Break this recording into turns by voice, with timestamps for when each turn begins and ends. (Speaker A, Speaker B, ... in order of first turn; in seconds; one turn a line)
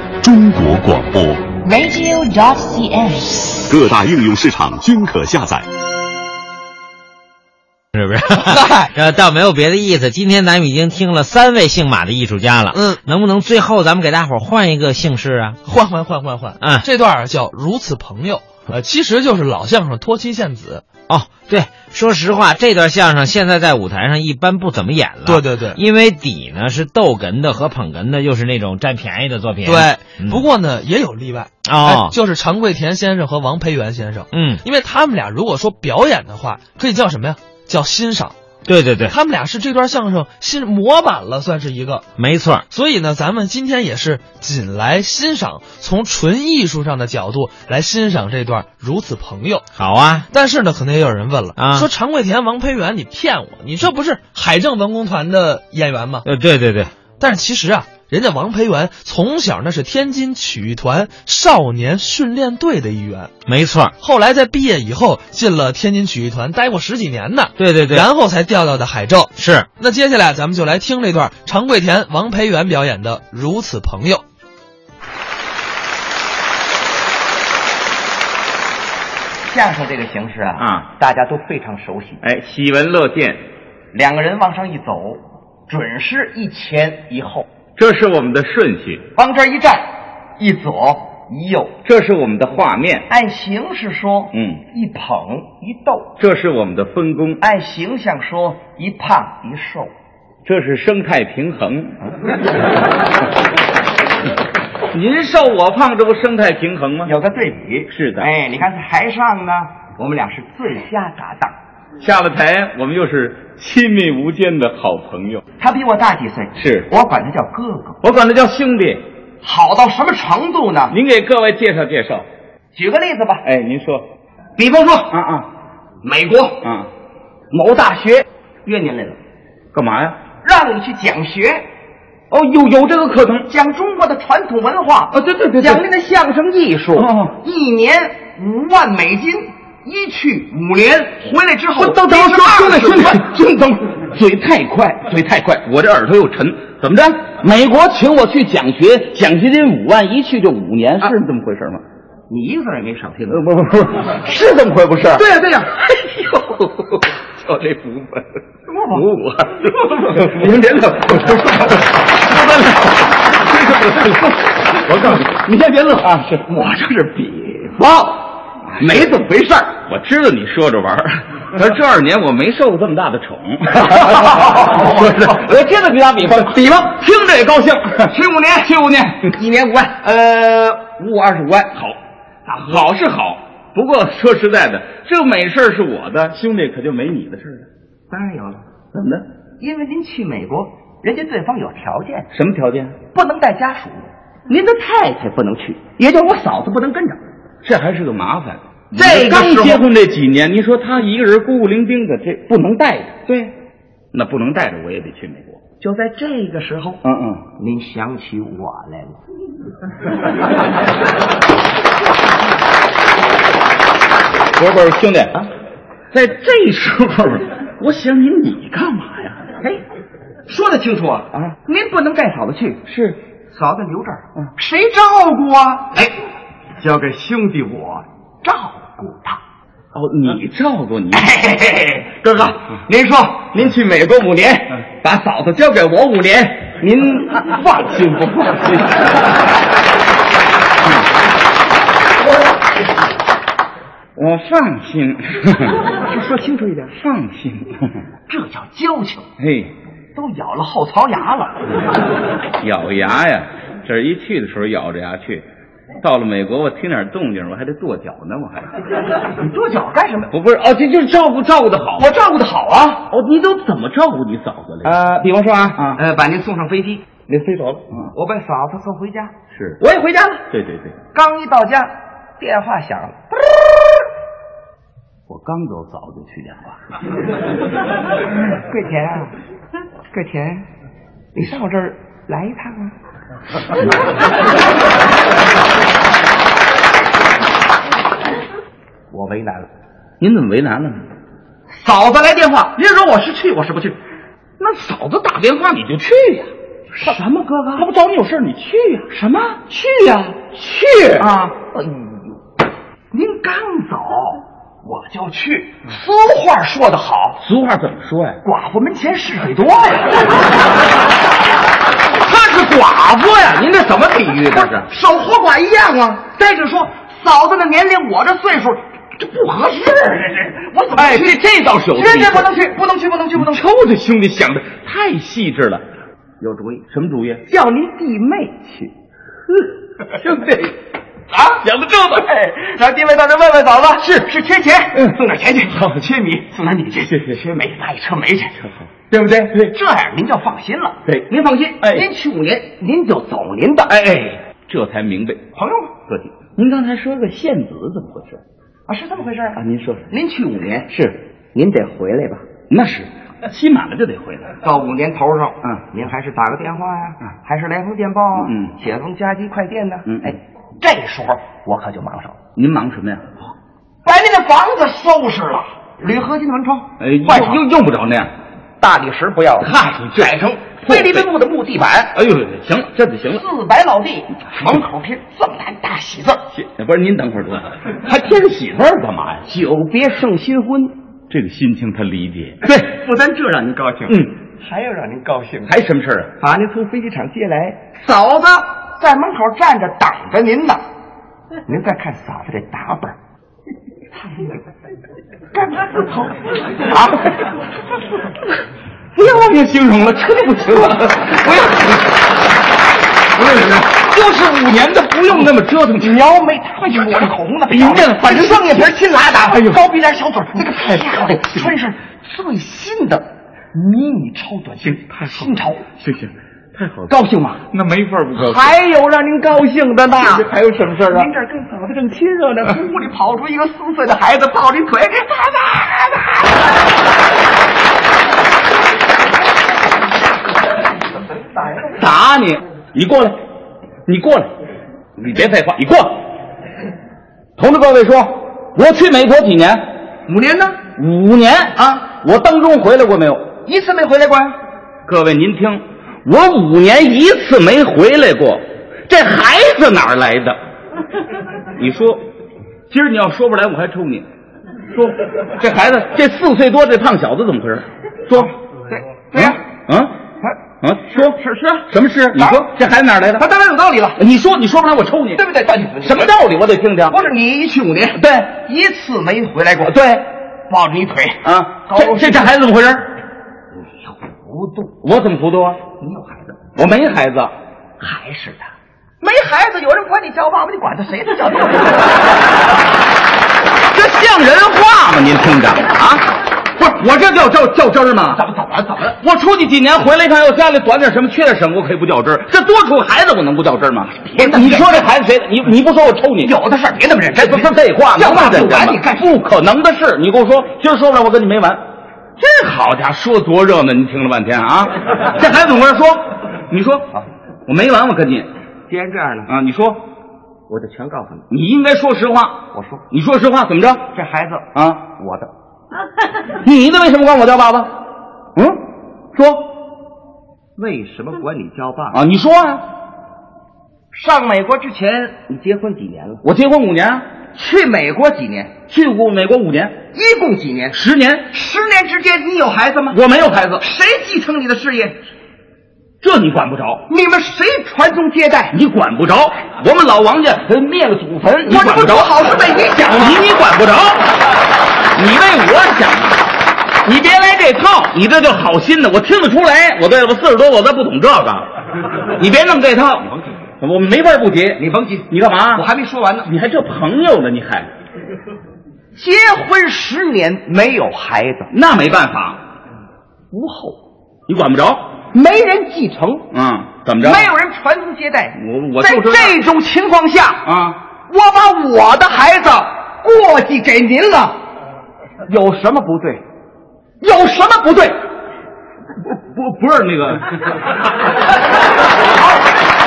Speaker A: 0.2-1.4
Speaker B: 1.6-3.6
Speaker A: 3.7-5.7
Speaker C: 7.9-15.6
Speaker D: 8.5-8.9
Speaker D: 12.7-13.0
Speaker D: 15.7-20.9
Speaker C: 21.1-30.4
Speaker D: 25.2-25.8
Speaker D: 29.6-38.4
Speaker C: 31.7-32.2
Speaker C: 34.3-34.6
Speaker C: 38.7-39.1
Speaker D: 39.0-42.1
Speaker C: 42.2-42.6
Speaker D: 42.7-49.7
Speaker C: 49.8-50.3
Speaker D: 50.3-56.3
Speaker C: 51.6-51.9
Speaker C: 56.2-56.9
Speaker D: 57.2-63.3
Speaker C: 63.5-63.9
Speaker D: 64.0-74.2
Speaker C: 67.6-68.1
Speaker C: 69.4-69.7
Speaker E: 79.5-82.2
Speaker F: 80.6-80.9
Speaker F: 82.2-83.5
Speaker E: 83.9-87.5
Speaker F: 87.8-89.1
Speaker E: 89.2-91.7
Speaker F: 91.8-93.1
Speaker E: 93.1-96.2
Speaker F: 94.3-94.6
Speaker F: 96.2-97.4
Speaker E: 97.4-99.9
Speaker F: 100.5-102.0
Speaker F: 104.9-107.1
Speaker E: 107.0-111.6
Speaker F: 107.9-108.3
Speaker F: 112.0-115.4
Speaker E: 115.6-118.0
Speaker F: 116.6-116.9
Speaker F: 118.0-119.1
Speaker E: 119.4-121.0
Speaker F: 120.9-122.3
Speaker E: 122.7-123.5
Speaker F: 123.4-124.1
Speaker E: 124.6-125.1
Speaker F: 125.1-125.5
Speaker E: 126.0-126.6
Speaker F: 126.6-126.9
Speaker E: 127.5-129.2
Speaker F: 129.7-130.2
Speaker E: 130.4-131.7
Speaker F: 132.3-133.5
Speaker E: 133.5-143.2
Speaker F: 135.1-135.8
Speaker F: 137.0-137.4
Speaker F: 141.8-151.8
Speaker E: 152.3-153.4
Speaker F: 153.3-155.3
Speaker E: 155.1-156.5
Speaker F: 157.2-158.4
Speaker E: 158.7-159.1
Speaker F: 158.9-164.3
Speaker E: 159.7-161.9
Speaker F: 164.8-166.4
Speaker E: 166.4-169.8
Speaker F: 169.8-178.1
Speaker E: 173.8-175.5
Speaker E: 176.4-177.0
Speaker E: 178.0-181.7
Speaker F: 178.7-179.2
Speaker F: 182.5-187.7
Speaker E: 188.1-188.7
Speaker F: 188.9-189.2
Speaker E: 189.6-192.3
Speaker F: 192.3-193.0
Speaker E: 193.1-197.3
Speaker F: 197.6-203.5
Speaker E: 198.9-199.9
Speaker F: 204.1-205.6
Speaker E: 205.8-207.0
Speaker F: 207.0-207.5
Speaker E: 207.6-209.2
Speaker F: 214.6-215.5
Speaker F: 216.1-219.5
Speaker E: 220.5-222.8
Speaker F: 222.9-223.2
Speaker E: 223.5-226.2
Speaker E: 226.8-229.4
Speaker F: 229.9-231.3
Speaker E: 231.1-236.8
Speaker F: 233.6-234.7
Speaker F: 236.4-239.0
Speaker E: 237.4-238.6
Speaker F: 244.2-245.8
Speaker E: 246.1-247.0
Speaker F: 246.9-248.0
Speaker E: 248.3-249.3
Speaker F: 249.4-249.7
Speaker E: 250.2-251.6
Speaker F: 252.6-255.5
Speaker F: 256.0-258.7
Speaker E: 259.4-260.3
Speaker F: 260.3-262.1
Speaker E: 262.0-263.1
Speaker F: 263.1-266.0
Speaker E: 265.8-270.4
Speaker F: 269.5-269.8
Speaker F: 270.5-271.0
Speaker E: 271.1-273.8
Speaker F: 275.3-276.8
Speaker E: 278.6-279.4
Speaker E: 280.1-280.7
Speaker E: 281.4-282.9
Speaker E: 289.1-289.7
Speaker F: 290.2-291.1
Speaker E: 291.7-294.0
Speaker F: 294.6-296.5
Speaker E: 296.9-297.9
Speaker F: 297.8-299.6
Speaker E: 299.6-302.4
Speaker F: 301.2-301.6
Speaker E: 303.1-307.4
Speaker F: 307.4-308.4
Speaker E: 308.4-310.3
Speaker F: 312.2-314.9
Speaker E: 314.7-323.6
Speaker F: 320.9-322.5
Speaker F: 323.4-325.9
Speaker E: 326.4-326.9
Speaker F: 326.9-327.4
Speaker E: 327.4-328.9
Speaker F: 330.2-330.8
Speaker E: 331.3-331.6
Speaker F: 331.6-332.3
Speaker E: 332.2-338.6
Speaker F: 334.9-336.1
Speaker F: 337.1-337.4
Speaker F: 339.0-339.8
Speaker E: 339.7-344.0
Speaker F: 341.1-342.1
Speaker F: 343.9-345.4
Speaker E: 345.6-345.9
Speaker F: 346.1-348.4
Speaker E: 348.9-350.9
Speaker F: 349.6-350.1
Speaker F: 350.9-351.2
Speaker E: 351.5-352.5
Speaker F: 352.7-354.6
Speaker E: 354.6-362.4
Speaker F: 358.4-358.7
Speaker F: 362.6-363.3
Speaker E: 364.0-367.6
Speaker F: 367.0-368.3
Speaker E: 368.8-372.2
Speaker F: 369.6-371.3
Speaker F: 372.1-373.4
Speaker E: 373.3-376.4
Speaker F: 376.5-379.5
Speaker E: 379.5-381.0
Speaker F: 381.3-382.9
Speaker E: 382.6-385.8
Speaker F: 384.1-384.4
Speaker F: 385.6-386.4
Speaker E: 386.4-390.8
Speaker E: 391.7-393.2
Speaker E: 395.5-396.4
Speaker F: 396.9-397.2
Speaker F: 399.1-401.7
Speaker E: 401.2-402.0
Speaker F: 403.4-406.2
Speaker E: 405.3-415.9
Speaker F: 407.2-409.9
Speaker F: 410.5-411.0
Speaker F: 414.8-417.1
Speaker E: 417.1-417.6
Speaker F: 417.7-418.8
Speaker E: 418.4-420.5
Speaker F: 420.1-421.3
Speaker E: 421.1-426.7
Speaker F: 431.9-433.4
Speaker F: 434.1-434.5
Speaker F: 435.2-436.3
Speaker F: 437.6-439.9
Speaker E: 440.3-440.8
Speaker F: 441.0-443.5
Speaker E: 441.8-442.0
Speaker E: 443.6-444.6
Speaker F: 445.1-450.6
Speaker F: 451.8-452.3
Speaker F: 452.9-454.3
Speaker F: 454.9-458.5
Speaker E: 458.3-459.6
Speaker F: 459.3-460.2
Speaker E: 460.4-462.7
Speaker F: 460.8-463.5
Speaker E: 463.4-464.2
Speaker F: 464.2-465.4
Speaker E: 465.4-466.3
Speaker F: 466.0-467.2
Speaker E: 467.1-470.0
Speaker F: 468.1-468.5
Speaker F: 469.9-470.3
Speaker E: 470.7-472.5
Speaker F: 471.4-473.1
Speaker E: 473.8-475.0
Speaker F: 475.0-475.8
Speaker E: 476.0-476.6
Speaker F: 476.8-477.5
Speaker E: 478.0-482.3
Speaker F: 483.9-486.3
Speaker F: 486.8-488.4
Speaker E: 488.3-489.2
Speaker F: 489.2-496.6
Speaker E: 494.3-495.1
Speaker E: 496.4-499.3
Speaker F: 497.4-501.8
Speaker F: 502.4-508.5
Speaker E: 508.9-509.5
Speaker F: 509.5-510.1
Speaker E: 510.7-511.4
Speaker F: 511.5-514.1
Speaker E: 512.7-513.0
Speaker E: 514.1-515.5
Speaker F: 514.8-515.1
Speaker F: 516.6-518.0
Speaker F: 518.6-519.8
Speaker E: 520.8-522.2
Speaker F: 522.1-522.9
Speaker E: 524.1-526.5
Speaker F: 526.4-527.3
Speaker E: 527.5-528.8
Speaker F: 528.9-530.0
Speaker E: 530.1-533.2
Speaker F: 530.9-531.5
Speaker F: 533.1-533.9
Speaker E: 533.8-535.2
Speaker F: 536.2-537.1
Speaker E: 537.1-538.8
Speaker F: 538.7-542.4
Speaker E: 541.6-543.4
Speaker F: 543.0-544.3
Speaker F: 545.1-546.4
Speaker F: 547.0-551.7
Speaker F: 552.3-555.9
Speaker E: 554.8-556.5
Speaker F: 556.4-557.9
Speaker E: 559.1-561.7
Speaker F: 561.7-562.6
Speaker E: 563.5-564.0
Speaker F: 564.5-565.1
Speaker E: 565.3-566.5
Speaker F: 566.5-567.5
Speaker E: 567.2-570.7
Speaker F: 568.5-569.6
Speaker F: 570.6-571.0
Speaker E: 571.3-574.6
Speaker E: 575.5-576.4
Speaker E: 577.2-578.2
Speaker F: 579.2-580.5